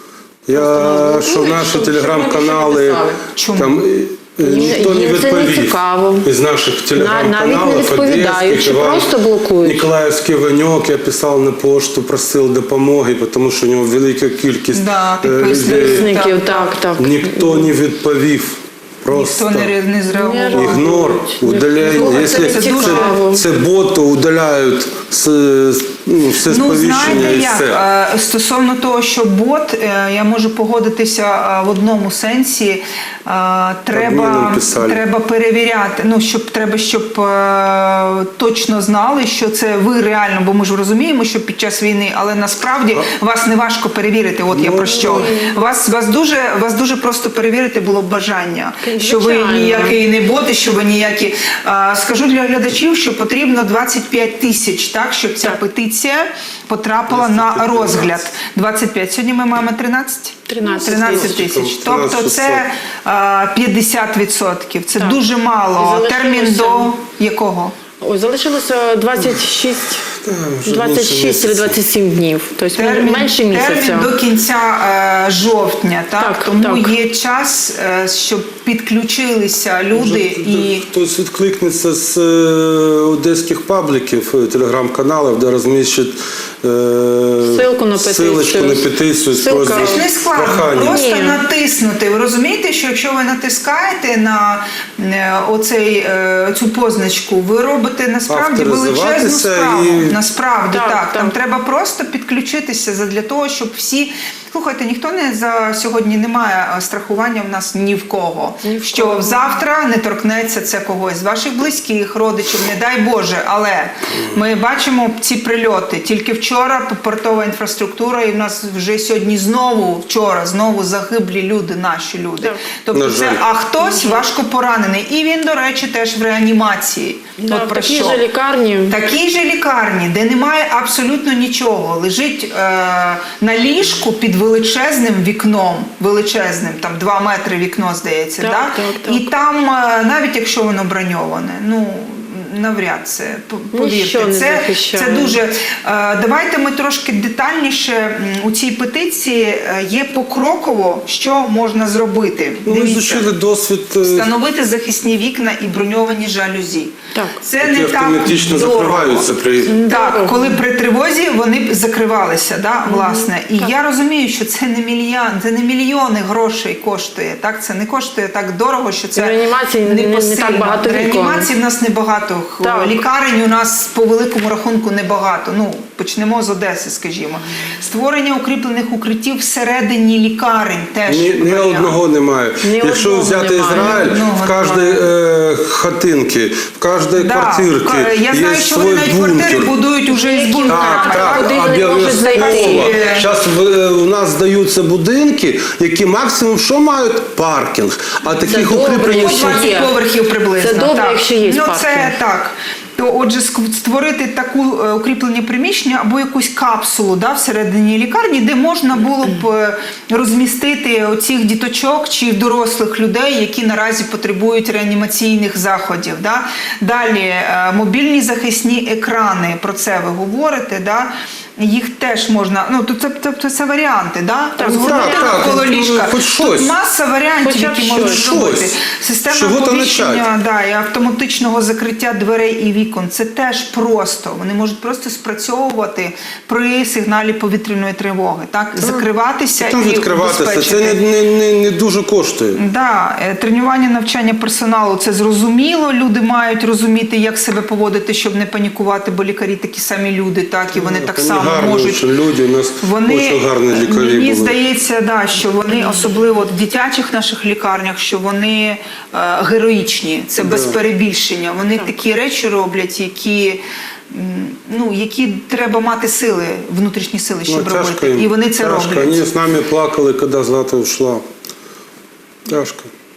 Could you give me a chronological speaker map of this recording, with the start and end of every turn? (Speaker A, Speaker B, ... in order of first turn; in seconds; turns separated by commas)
Speaker A: 0.5-3.0, Speaker B: 0.5-3.2, Speaker C: 3.3-3.8, Speaker A: 3.5-16.2, Speaker B: 4.4-6.3, Speaker B: 6.9-9.9, Speaker C: 14.7-16.7, Speaker B: 15.6-17.7, Speaker A: 17.0-19.7, Speaker C: 19.1-20.9, Speaker B: 20.1-23.4, Speaker A: 20.5-27.8, Speaker C: 21.9-23.2, Speaker C: 26.5-67.7, Speaker A: 33.9-35.0, Speaker A: 44.5-45.3, Speaker B: 44.8-45.5, Speaker B: 48.8-50.0, Speaker A: 57.1-58.3, Speaker B: 60.5-61.4, Speaker A: 60.9-62.6, Speaker B: 65.0-65.2, Speaker B: 65.8-66.9, Speaker B: 68.0-70.1, Speaker A: 70.1-71.8, Speaker B: 70.6-74.1, Speaker C: 72.8-80.8, Speaker B: 76.2-76.9, Speaker A: 79.9-91.0, Speaker B: 87.4-90.0, Speaker C: 89.7-128.2, Speaker B: 90.8-91.4, Speaker A: 98.3-100.2, Speaker B: 100.7-101.3, Speaker B: 108.6-109.6, Speaker A: 114.1-114.4, Speaker B: 122.4-122.7, Speaker A: 122.9-123.4, Speaker B: 123.8-124.2, Speaker B: 127.4-128.9, Speaker C: 128.9-153.2, Speaker B: 138.4-139.2, Speaker B: 143.7-145.4, Speaker A: 152.6-154.3, Speaker C: 154.0-159.3, Speaker B: 157.1-157.4, Speaker A: 157.6-159.7, Speaker B: 159.6-160.4, Speaker C: 159.8-182.0, Speaker B: 162.9-163.7, Speaker B: 169.2-171.5, Speaker B: 172.6-173.0, Speaker A: 181.1-189.7, Speaker B: 182.6-184.1, Speaker C: 183.7-185.1, Speaker C: 187.2-193.3, Speaker B: 190.1-192.9, Speaker A: 190.7-199.7, Speaker B: 198.4-199.9, Speaker C: 199.0-241.0, Speaker B: 200.6-202.2, Speaker B: 224.6-225.5, Speaker A: 224.6-226.7, Speaker B: 227.4-228.3, Speaker A: 228.0-228.8, Speaker A: 229.3-230.3, Speaker A: 238.8-239.1, Speaker A: 239.6-242.6, Speaker C: 242.6-252.0, Speaker A: 250.7-254.6, Speaker C: 252.8-269.2, Speaker A: 260.4-260.8, Speaker A: 267.5-271.2, Speaker A: 272.5-272.9